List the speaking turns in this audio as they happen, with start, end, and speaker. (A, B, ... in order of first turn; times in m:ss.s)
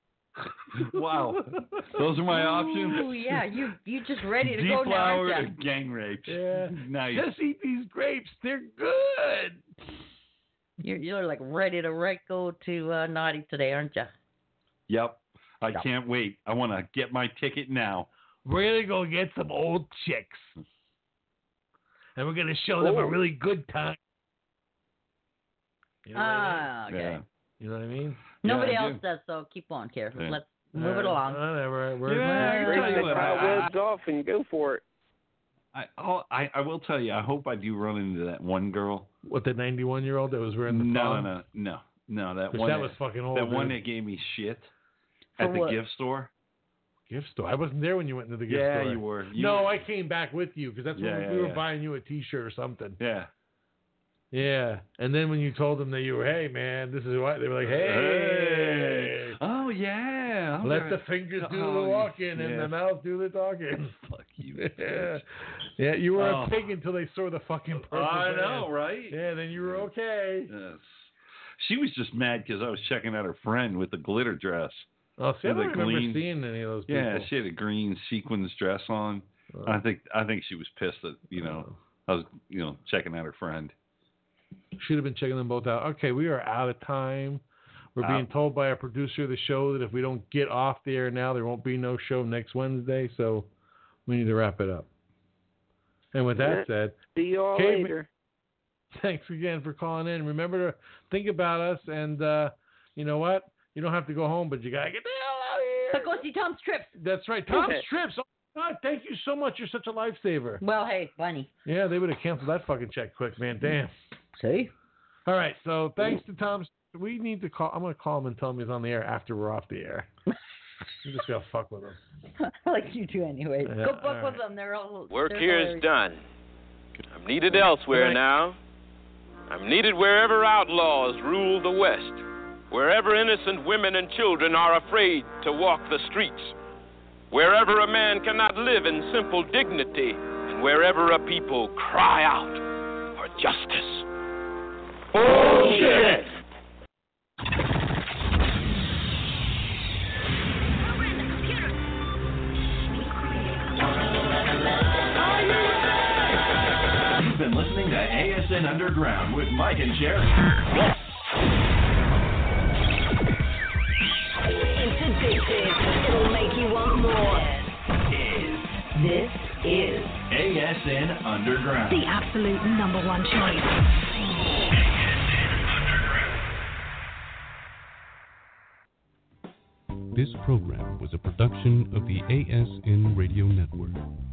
0:00.8-0:02.0 A
0:00.8-0:03.2 B
0:02.3-0:05.5 C
0:04.4-0:07.3 B
0:06.3-0:09.6 A
0:10.8-0:14.1 C
0:14.9-0:18.1 B
0:18.4-0:20.6 A
0:22.2-0:24.0 A
0:22.8-0:23.2 D
0:26.0-0:26.7 A
0:26.1-0:27.2 C
0:26.9-0:27.2 B
0:27.6-0:28.8 A
0:28.4-0:31.5 C
0:28.5-0:29.0 B
0:30.7-0:32.8 A
0:32.0-0:33.7 B
0:32.2-0:33.7 C
0:32.6-0:34.8 D
0:35.7-0:39.1 B
0:39.2-0:41.3 A
0:40.7-0:44.7 B
0:42.5-0:43.8 A
0:45.4-0:45.8 C
0:45.4-0:46.3 B
0:47.1-0:53.0 A
0:48.5-0:49.8 B
0:51.0-0:51.6 B
0:53.0-0:53.3 B
0:54.3-0:59.4 A
0:57.8-1:02.7 B
1:00.6-1:04.0 A
1:04.0-1:05.2 B
1:04.6-1:10.5 A
1:06.2-1:06.6 B
1:07.9-1:09.9 B
1:10.5-1:14.9 B
1:15.2-1:17.3 A
1:15.4-1:16.2 B
1:16.9-1:23.7 B
1:19.5-1:19.8 A
1:21.4-1:21.7 A
1:24.8-1:27.4 A
1:28.0-1:33.5 A
1:28.0-1:28.3 B
1:34.1-1:34.9 A
1:36.1-1:37.0 A
1:36.4-1:38.1 D
1:37.5-1:37.9 A
1:38.9-1:46.2 A
1:45.9-1:47.0 C
1:47.0-1:50.6 A
1:47.5-1:47.8 D
1:50.6-1:51.5 C
1:51.6-1:53.9 A
1:54.4-1:54.7 C
1:55.3-2:00.1 A
2:01.0-2:02.0 A
2:02.4-2:05.9 C
2:03.7-2:04.4 A
2:05.1-2:06.2 E
2:07.1-2:08.6 E
2:07.7-2:08.2 A
2:09.5-2:16.6 E
2:17.3-2:22.6 E
2:23.2-2:24.0 E
2:25.2-2:26.2 A
2:37.2-2:40.3 F
2:44.7-2:47.6 G
2:48.1-2:48.7 F
2:48.9-2:50.3 G
2:50.3-2:52.1 F
2:51.9-2:53.8 G
3:00.1-3:04.0 H